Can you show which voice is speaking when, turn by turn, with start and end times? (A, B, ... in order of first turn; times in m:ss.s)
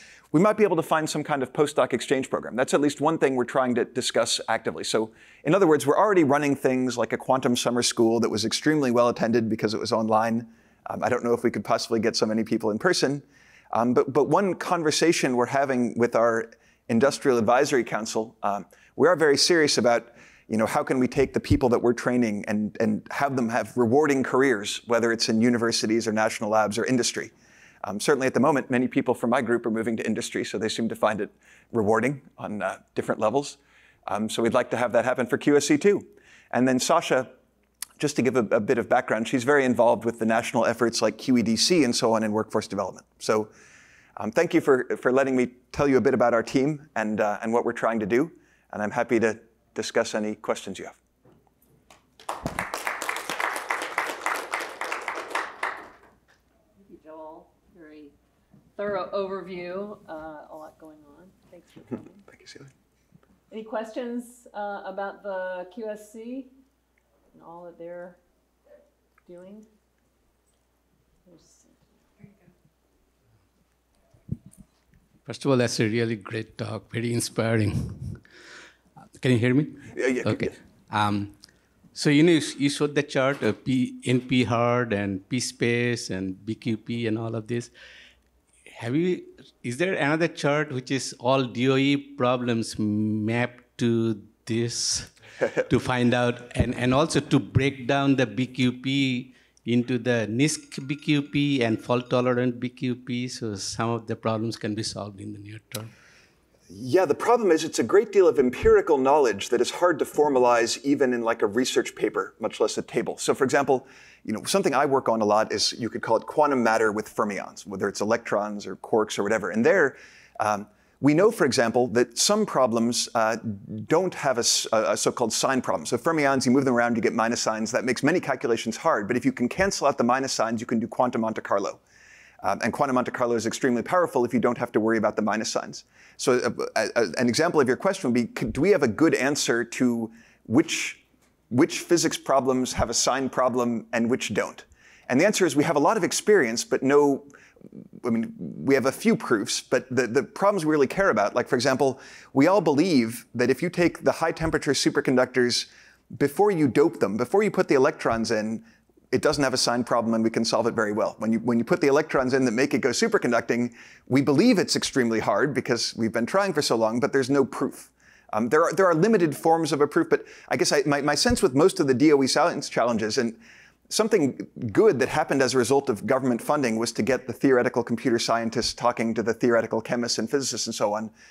0:00.3-0:27.3 A
0:27.8-0:37.4 A
0:38.0-0:43.5 A
0:44.2-0:51.0 A
0:56.8-0:58.2 B
0:58.8-1:02.2 B
1:02.3-1:02.7 A
1:03.5-1:06.5 B
1:07.3-1:08.2 B
1:09.2-1:09.7 B
1:11.2-1:11.8 B
1:15.3-1:18.3 C
1:19.2-1:21.4 C
1:19.9-1:20.6 A
1:22.0-1:27.7 C
1:28.7-1:45.9 C
1:46.7-2:11.8 A
2:12.4-2:27.3 A
2:28.0-3:01.1 A